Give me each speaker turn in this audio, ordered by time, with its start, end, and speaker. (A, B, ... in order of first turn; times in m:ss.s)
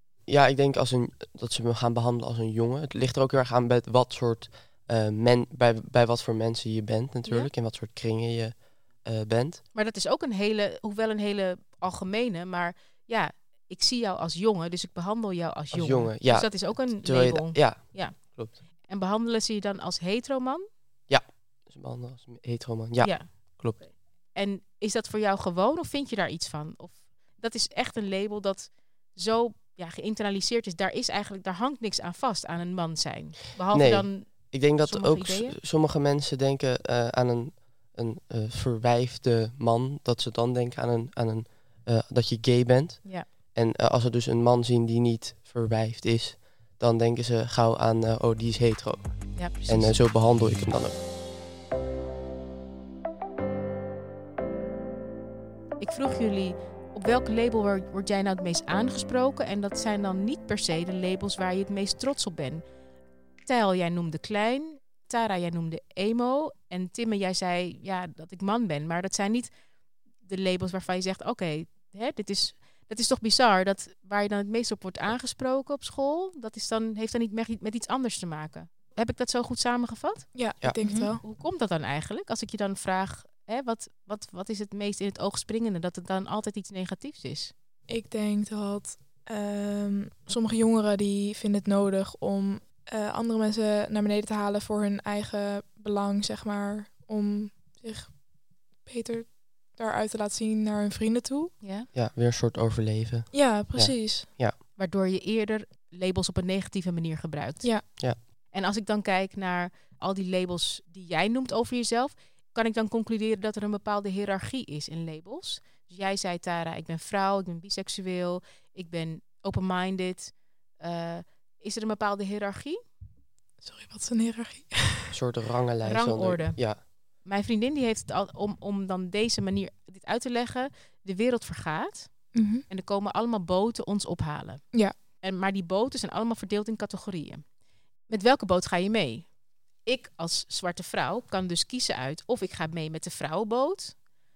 0:00.3-0:09.6 A
0:07.2-0:07.5 B
0:09.7-0:20.6 B
0:15.7-0:18.5 A
0:21.1-0:23.8 A
0:23.0-0:35.6 B
0:33.7-0:51.0 A
0:49.3-0:50.0 B
0:55.8-1:02.6 B
1:03.4-1:09.5 B
1:10.2-1:20.3 B
1:20.3-1:21.2 C
1:20.9-1:27.5 B
1:27.9-1:38.2 C
1:38.8-1:41.5 C
1:41.6-1:41.9 B
1:41.9-1:44.5 A
1:43.3-1:44.3 C
1:44.8-1:48.0 B
1:47.6-1:47.9 C
1:48.5-2:02.8 B
2:03.6-2:05.2 C
2:05.1-2:06.8 A
2:05.8-2:14.6 B
2:12.3-2:12.6 C
2:15.2-2:17.4 B
2:18.1-2:19.3 B
2:19.8-2:24.0 B